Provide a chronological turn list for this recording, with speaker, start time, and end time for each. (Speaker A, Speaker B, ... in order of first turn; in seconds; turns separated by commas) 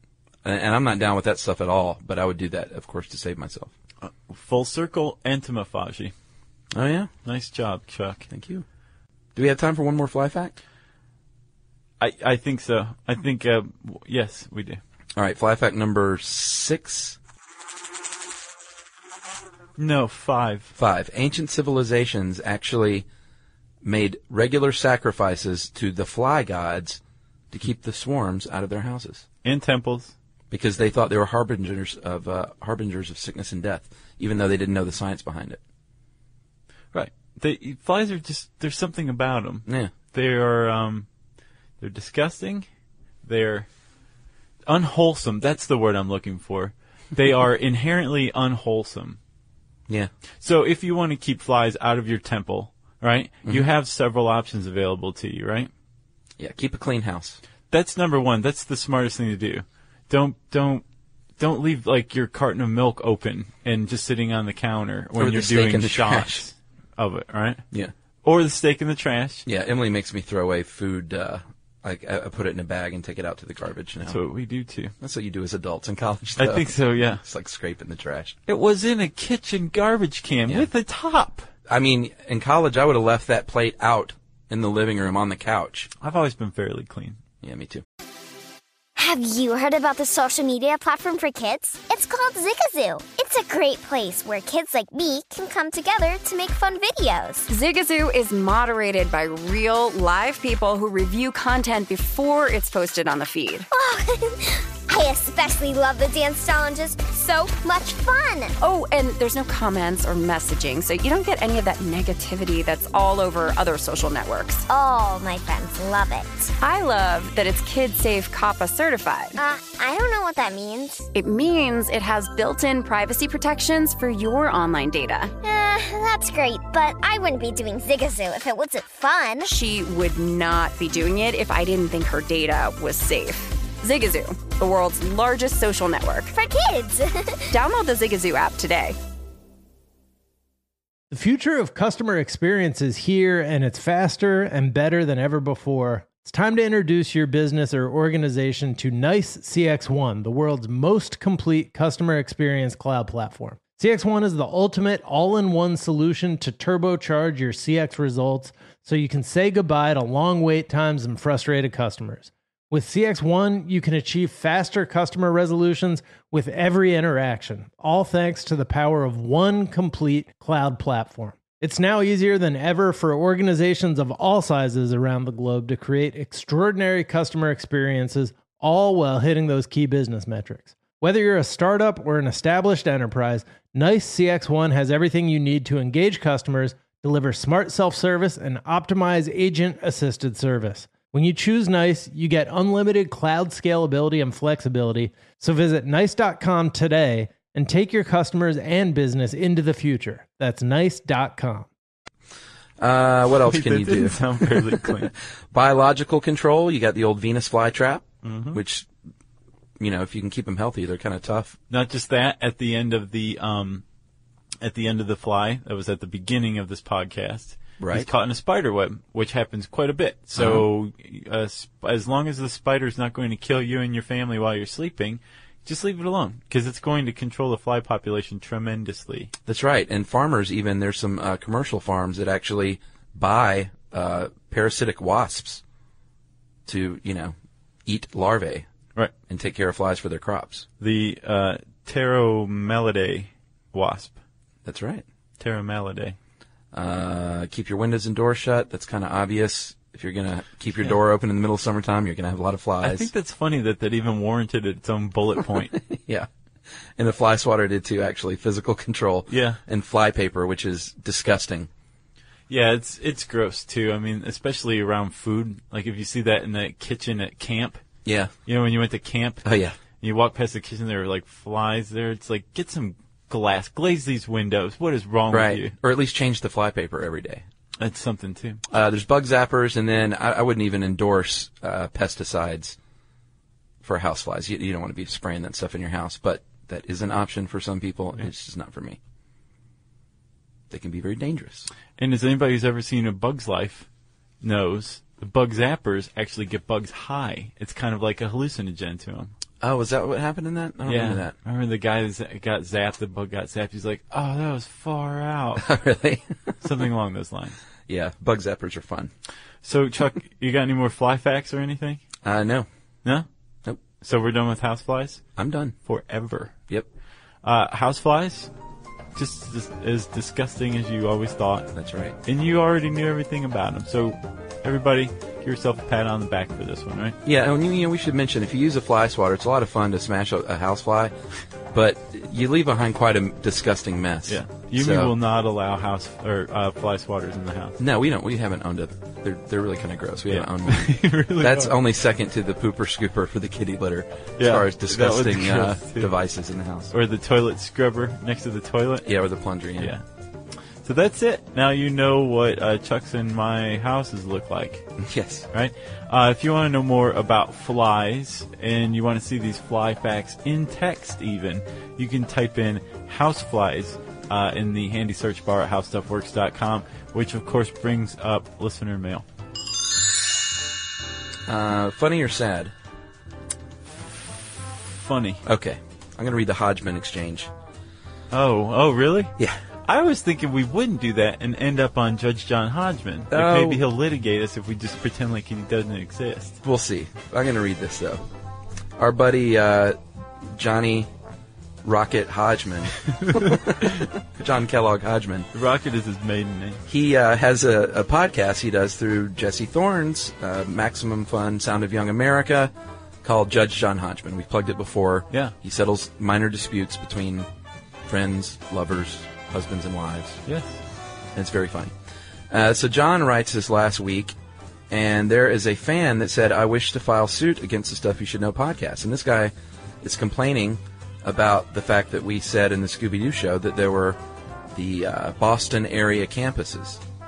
Speaker A: 0.4-3.7, Speaker B: 4.0-6.1, Speaker A: 6.7-7.1, Speaker B: 7.2-8.3, Speaker A: 8.3-8.7, Speaker A: 9.3-10.6, Speaker B: 12.0-14.8, Speaker A: 15.2-17.2, Speaker B: 19.8-20.7, Speaker A: 20.8-23.1, Speaker A: 23.8-29.2, Speaker B: 29.4-30.1, Speaker A: 30.5-35.6, Speaker B: 36.9-41.1, Speaker A: 39.7-39.9, Speaker B: 41.8-42.7, Speaker B: 43.2-43.7, Speaker B: 44.7-49.2, Speaker B: 50.4-55.7, Speaker A: 56.4-57.4, Speaker B: 57.7-60.8, Speaker B: 61.4-67.6, Speaker A: 65.2-66.5, Speaker B: 68.2-69.5, Speaker A: 69.5-74.2, Speaker B: 74.0-74.9, Speaker A: 75.0-78.4, Speaker B: 76.4-77.2, Speaker B: 78.5-81.5, Speaker A: 81.7-85.9, Speaker B: 86.0-87.2, Speaker A: 87.4-87.8, Speaker C: 89.0-97.5, Speaker D: 97.5-103.7, Speaker C: 103.7-108.5, Speaker D: 108.6-114.6, Speaker C: 114.7-116.5, Speaker D: 116.6-119.4, Speaker C: 119.4-121.1, Speaker D: 121.1-125.3, Speaker C: 125.4-129.5, Speaker D: 129.4-136.3, Speaker C: 136.3-137.5, Speaker D: 137.5-139.0, Speaker E: 141.1-201.7, Speaker A: 202.8-208.9, Speaker B: 203.4-205.1, Speaker B: 208.2-208.6, Speaker A: 209.8-211.6, Speaker B: 211.7-213.8, Speaker B: 214.6-229.3, Speaker A: 217.8-218.1, Speaker A: 220.4-220.7, Speaker A: 229.5-235.6, Speaker A: 236.7-237.3, Speaker A: 237.9-238.7, Speaker A: 239.3-240.7, Speaker B: 240.8-244.2, Speaker A: 244.7-245.0, Speaker B: 245.4-246.2, Speaker A: 246.7-253.1, Speaker B: 252.8-255.8, Speaker A: 255.7-256.3, Speaker A: 257.0-261.7, Speaker B: 259.3-259.6, Speaker B: 262.5-267.8, Speaker A: 268.1-268.3, Speaker B: 268.5-269.5, Speaker A: 269.4-269.8, Speaker B: 270.0-275.8, Speaker A: 275.3-277.4, Speaker B: 277.8-278.6, Speaker A: 278.7-282.8, Speaker A: 283.8-289.0, Speaker A: 290.7-291.7, Speaker B: 292.0-293.9, Speaker B: 294.4-299.3, Speaker A: 299.6-301.3, Speaker B: 300.9-305.6, Speaker A: 305.6-306.5, Speaker B: 306.6-307.6, Speaker A: 307.9-309.1, Speaker B: 309.6-312.0, Speaker A: 312.2-312.7, Speaker B: 314.0-315.2, Speaker A: 315.4-315.8, Speaker B: 315.9-316.5, Speaker B: 317.4-318.5, Speaker B: 319.1-321.7, Speaker A: 321.7-322.2, Speaker B: 322.2-327.2, Speaker A: 327.2-331.1, Speaker A: 331.7-335.1, Speaker B: 334.3-337.8, Speaker A: 337.8-346.9, Speaker B: 340.3-341.8, Speaker B: 344.4-346.1, Speaker B: 346.9-349.1, Speaker A: 349.0-349.9, Speaker B: 349.8-350.0, Speaker B: 350.8-354.9, Speaker A: 355.0-355.5, Speaker B: 355.5-369.2, Speaker A: 371.5-372.7, Speaker B: 374.9-375.4, Speaker A: 375.4-377.5, Speaker B: 378.3-386.6, Speaker A: 383.3-383.9, Speaker A: 386.6-388.2, Speaker A: 389.0-391.1, Speaker A: 391.8-395.5, Speaker B: 393.2-394.1, Speaker B: 395.5-396.8, Speaker A: 396.9-407.5, Speaker A: 408.1-410.4, Speaker B: 410.5-410.8, Speaker A: 411.4-411.9, Speaker A: 412.5-414.4, Speaker A: 414.9-424.2, Speaker A: 424.7-427.0